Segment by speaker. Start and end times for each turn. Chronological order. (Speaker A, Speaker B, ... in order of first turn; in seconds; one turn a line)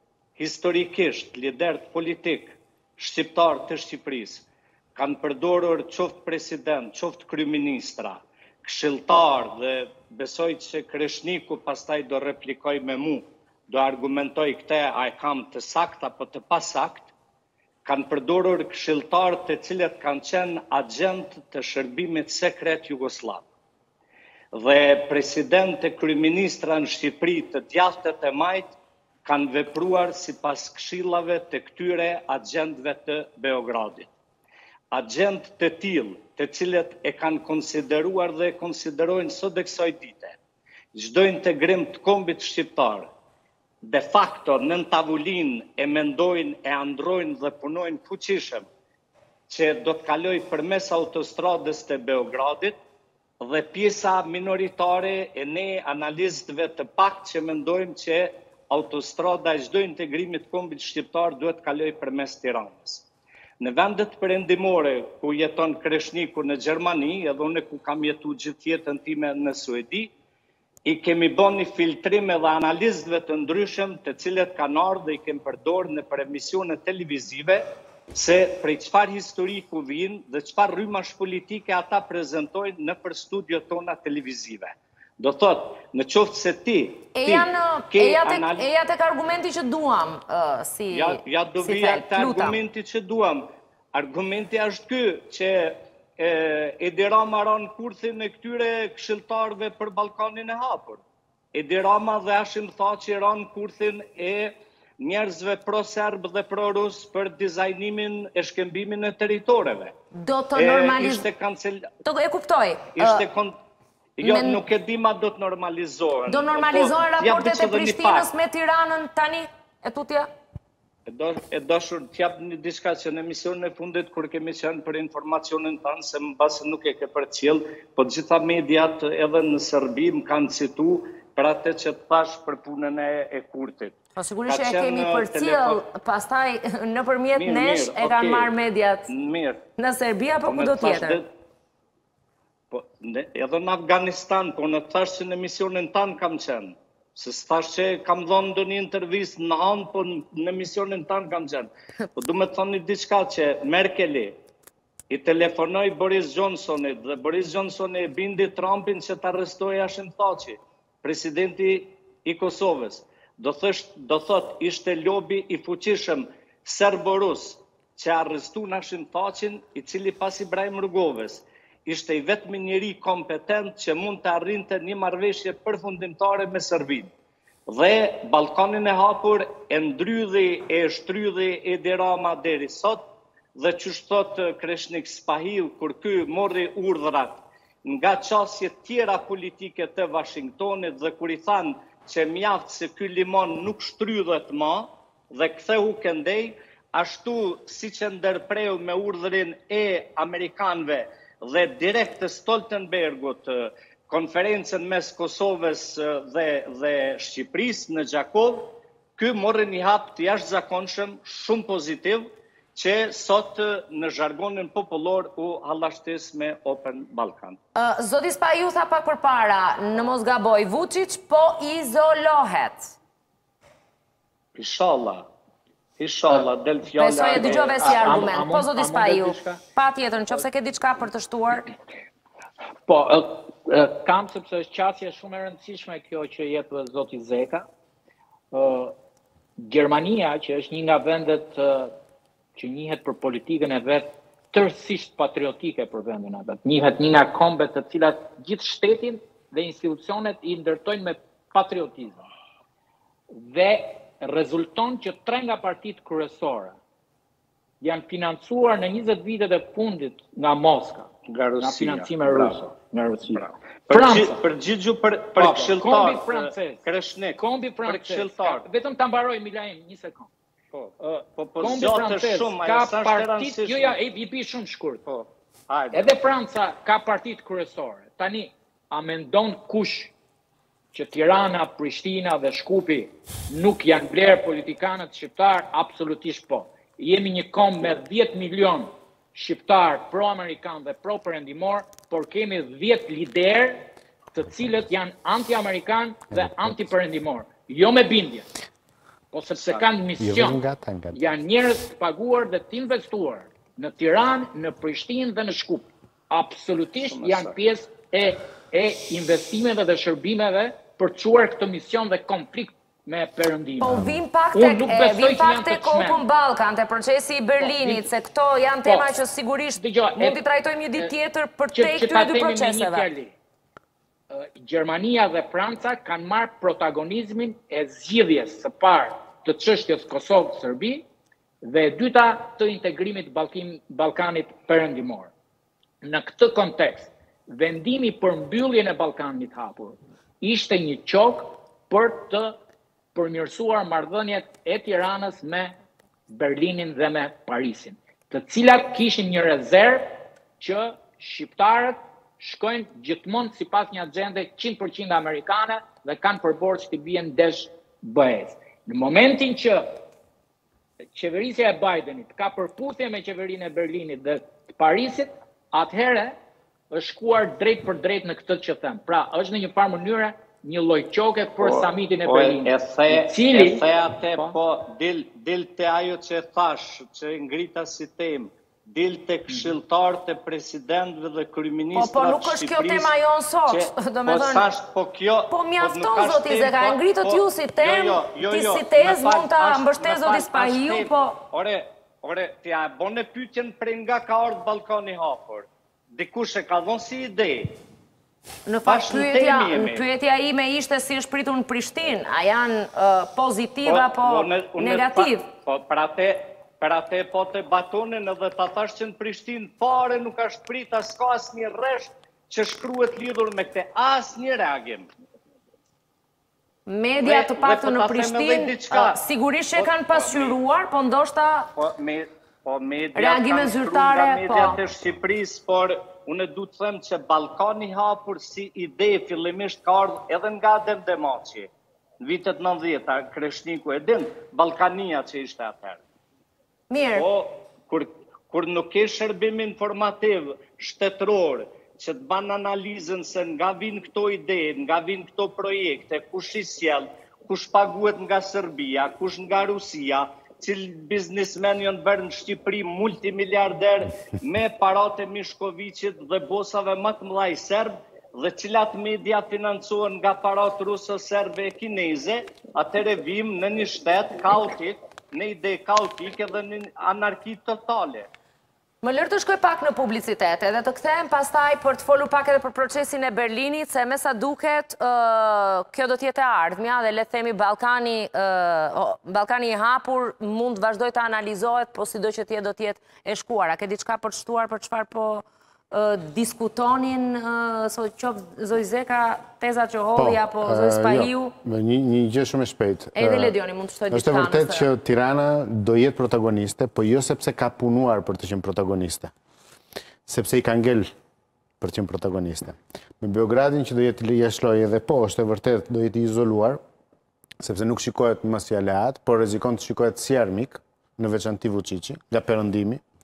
Speaker A: 0.4-17.1
Speaker A: 17.8-23.5
Speaker A: 24.5-34.1
Speaker A: 34.9-40.4
Speaker A: 40.9-43.1
Speaker A: 43.8-48.7
Speaker A: 49.5-52.8
Speaker A: 53.4-63.1
Speaker A: 63.6-70.1
Speaker A: 70.8-88.7
Speaker B: 87.1-92.6
Speaker A: 90.9-101.0
Speaker A: 101.5-109.9
Speaker B: 110.1-111.3
Speaker A: 110.5-111.9
Speaker B: 112.0-113.2
Speaker A: 113.0-113.5
Speaker A: 114.2-118.3
Speaker B: 114.2-114.6
Speaker B: 116.3-120.3
Speaker A: 121.1-135.8
Speaker B: 134.2-139.1
Speaker A: 137.3-138.5
Speaker A: 139.1-139.6
Speaker B: 139.8-141.2
Speaker A: 140.5-141.3
Speaker A: 142.7-154.4
Speaker A: 155.1-177.1
Speaker A: 177.7-183.0
Speaker A: 183.6-217.6
Speaker B: 217.7-222.9
Speaker A: 224.5-225.3
Speaker A: 226.0-228.4
Speaker B: 226.9-231.7
Speaker C: 227.1-229.6
Speaker C: 232.9-237.7
Speaker C: 238.5-238.9
Speaker C: 239.6-241.9
Speaker C: 242.6-252.3
Speaker C: 253.3-256.8
Speaker C: 257.8-264.4
Speaker A: 261.3-262.6
Speaker A: 263.3-268.6
Speaker C: 265.4-266.9
Speaker C: 267.4-270.3
Speaker A: 270.7-273.9
Speaker C: 271.0-275.0
Speaker A: 275.1-276.1
Speaker C: 275.9-280.1
Speaker C: 280.9-298.5
Speaker C: 299.3-300.6
Speaker A: 299.6-299.9
Speaker D: 300.2-301.2
Speaker C: 301.1-316.2
Speaker A: 307.1-307.6
Speaker B: 313.8-323.1
Speaker C: 317.6-318.1
Speaker C: 319.8-320.4
Speaker C: 321.7-323.3
Speaker C: 324.3-331.0
Speaker C: 331.6-335.3
Speaker C: 336.0-342.6
Speaker C: 343.1-345.7
Speaker C: 346.3-360.0
Speaker C: 361.1-366.3
Speaker C: 366.9-374.6
Speaker A: 371.6-383.1
Speaker B: 381.9-384.6
Speaker A: 383.7-397.8
Speaker B: 385.5-391.4
Speaker B: 398.6-405.5
Speaker A: 398.9-400.1
Speaker A: 403.9-415.1
Speaker B: 416.9-421.7
Speaker A: 417.2-419.2
Speaker A: 419.8-420.6
Speaker A: 421.8-436.0
Speaker B: 423.1-424.8
Speaker B: 436.9-437.3
Speaker A: 437.1-468.3
Speaker B: 469.0-491.5
Speaker D: 490.1-493.6
Speaker B: 493.1-494.9
Speaker D: 494.1-499.3
Speaker D: 500.2-501.1
Speaker D: 501.8-506.8
Speaker D: 507.6-513.0